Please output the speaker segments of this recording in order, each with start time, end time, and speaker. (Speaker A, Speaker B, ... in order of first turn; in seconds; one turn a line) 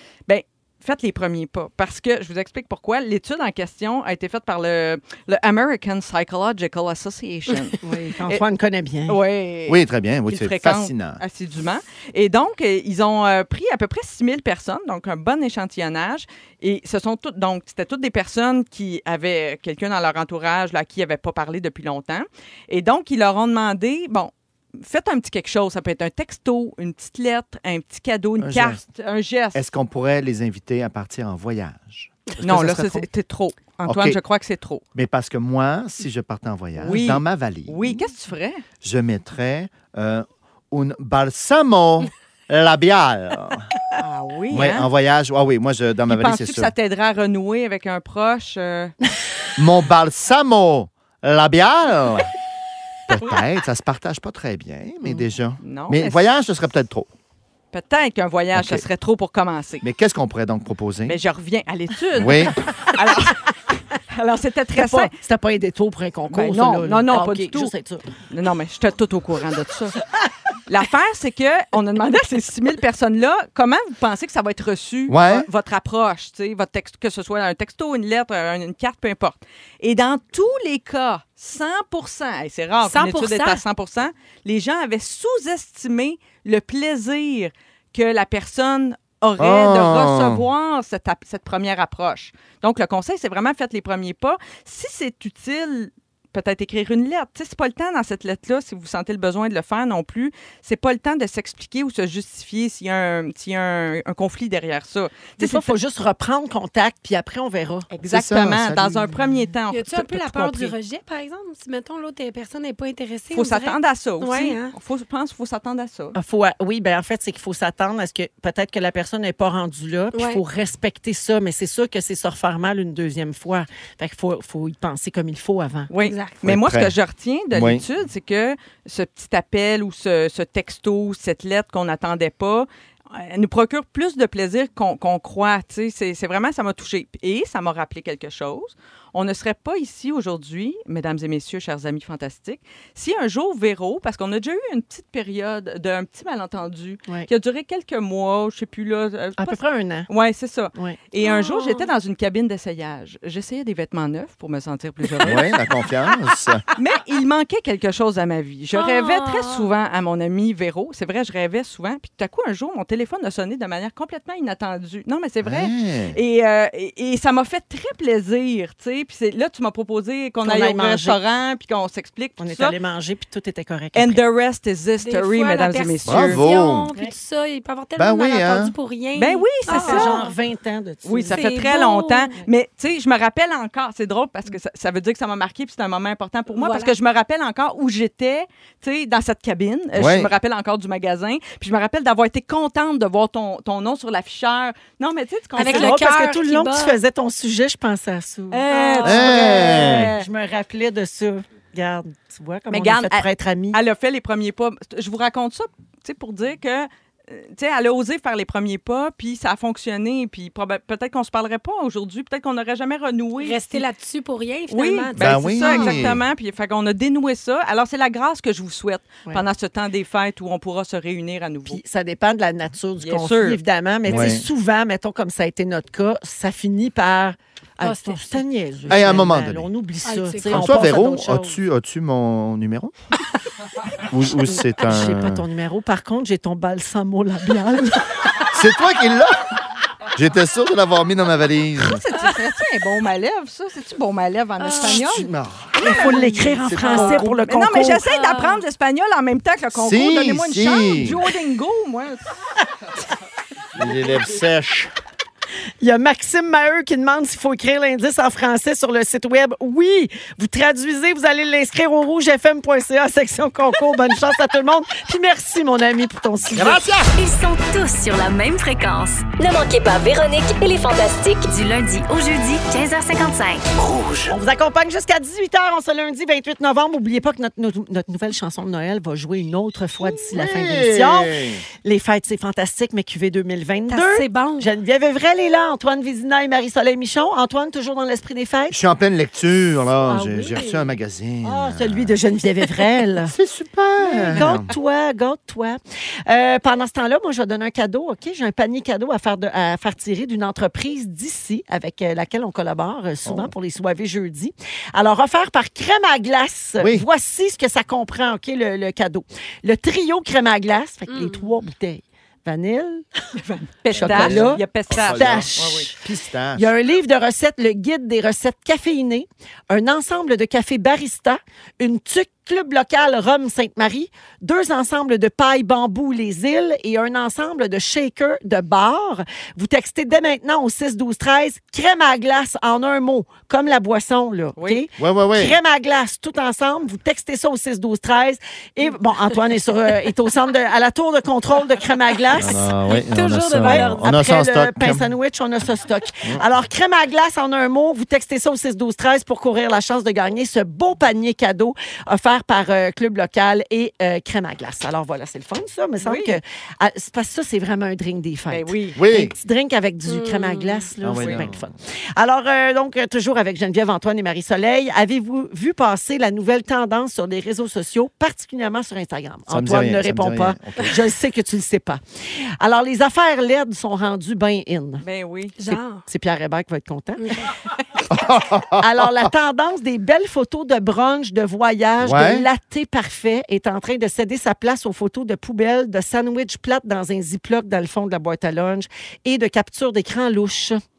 Speaker A: 0.3-8.4
Speaker B: 7.8-9.2
Speaker A: 9.1-29.6
Speaker C: 9.7-11.2
Speaker C: 28.4-28.8
Speaker C: 29.5-33.1
Speaker A: 32.4-34.8
Speaker C: 33.9-34.2
Speaker C: 35.0-38.1
Speaker A: 36.8-38.6
Speaker C: 38.8-43.7
Speaker A: 44.0-44.9
Speaker C: 44.5-46.7
Speaker A: 46.1-49.0
Speaker C: 49.6-52.3
Speaker C: 53.1-57.1
Speaker A: 55.6-56.2
Speaker A: 57.7-59.8
Speaker C: 58.5-58.9
Speaker C: 59.8-61.2
Speaker A: 61.1-63.5
Speaker C: 62.1-62.6
Speaker A: 64.1-65.1
Speaker B: 64.8-68.1
Speaker A: 66.3-67.7
Speaker A: 68.3-70.0
Speaker A: 70.7-105.7
Speaker C: 75.1-75.5
Speaker D: 82.8-83.6
Speaker C: 89.4-90.5
Speaker B: 105.4-107.9
Speaker A: 107.9-110.7
Speaker C: 108.1-109.2
Speaker D: 109.7-114.7
Speaker A: 113.3-116.2
Speaker B: 116.2-125.9
Speaker D: 120.1-120.4
Speaker A: 125.9-155.6
Speaker D: 126.0-126.3
Speaker C: 126.4-127.0
Speaker C: 127.5-127.8
Speaker B: 149.4-150.1
Speaker D: 151.2-151.8
Speaker C: 155.2-156.6
Speaker A: 156.8-172.8
Speaker D: 158.8-159.7
Speaker C: 165.4-166.2
Speaker B: 170.4-171.2
Speaker B: 172.4-174.2
Speaker A: 173.9-176.4
Speaker D: 175.0-180.3
Speaker C: 176.1-176.9
Speaker C: 178.0-178.7
Speaker A: 179.2-180.3
Speaker B: 179.7-181.4
Speaker A: 181.1-196.0
Speaker D: 181.3-182.3
Speaker D: 186.6-186.9
Speaker C: 189.9-190.3
Speaker D: 195.6-197.0
Speaker B: 195.6-203.8
Speaker A: 198.5-200.3
Speaker D: 198.7-199.2
Speaker C: 199.0-200.1
Speaker A: 202.7-213.8
Speaker D: 213.4-216.0
Speaker A: 214.7-221.8
Speaker C: 215.2-216.2
Speaker B: 221.7-231.6
Speaker A: 223.0-223.6
Speaker C: 224.1-224.5
Speaker D: 227.8-228.4
Speaker C: 228.9-229.7
Speaker D: 230.1-230.8
Speaker C: 230.5-232.9
Speaker C: 234.1-235.4
Speaker B: 234.5-238.2
Speaker C: 238.5-239.5
Speaker C: 240.2-242.0
Speaker A: 241.8-245.3
Speaker D: 244.6-245.0
Speaker C: 244.8-247.4
Speaker B: 245.8-248.1
Speaker D: 245.9-247.2
Speaker A: 246.9-252.2
Speaker D: 248.0-248.6
Speaker C: 249.7-251.2
Speaker C: 253.8-254.9
Speaker B: 255.8-266.9
Speaker C: 266.5-267.1
Speaker E: 267.2-273.7
Speaker B: 274.3-288.8
Speaker C: 280.0-281.6
Speaker D: 283.9-284.7
Speaker C: 288.7-292.2
Speaker B: 290.0-290.9
Speaker B: 291.4-293.3
Speaker C: 293.2-294.7
Speaker D: 294.0-294.4
Speaker B: 294.2-313.1
Speaker C: 303.2-303.5
Speaker C: 306.8-307.1
Speaker D: 311.1-311.5
Speaker A: 313.4-315.9
Speaker C: 313.9-316.7
Speaker B: 313.9-315.9
Speaker B: 316.6-342.7
Speaker A: 334.6-334.8
Speaker C: 335.0-335.6
Speaker C: 342.4-345.1
Speaker D: 342.9-344.1
Speaker B: 343.6-372.0
Speaker A: 356.0-356.4
Speaker A: 358.5-359.0
Speaker C: 359.0-359.4
Speaker D: 360.1-360.9
Speaker C: 361.0-361.7
Speaker A: 361.2-361.4
Speaker C: 369.5-371.0
Speaker B: 372.6-375.0
Speaker A: 375.0-375.6
Speaker D: 375.6-376.0
Speaker B: 375.7-377.4
Speaker D: 377.2-377.5
Speaker C: 378.1-379.3
Speaker B: 378.8-390.8
Speaker C: 382.0-382.5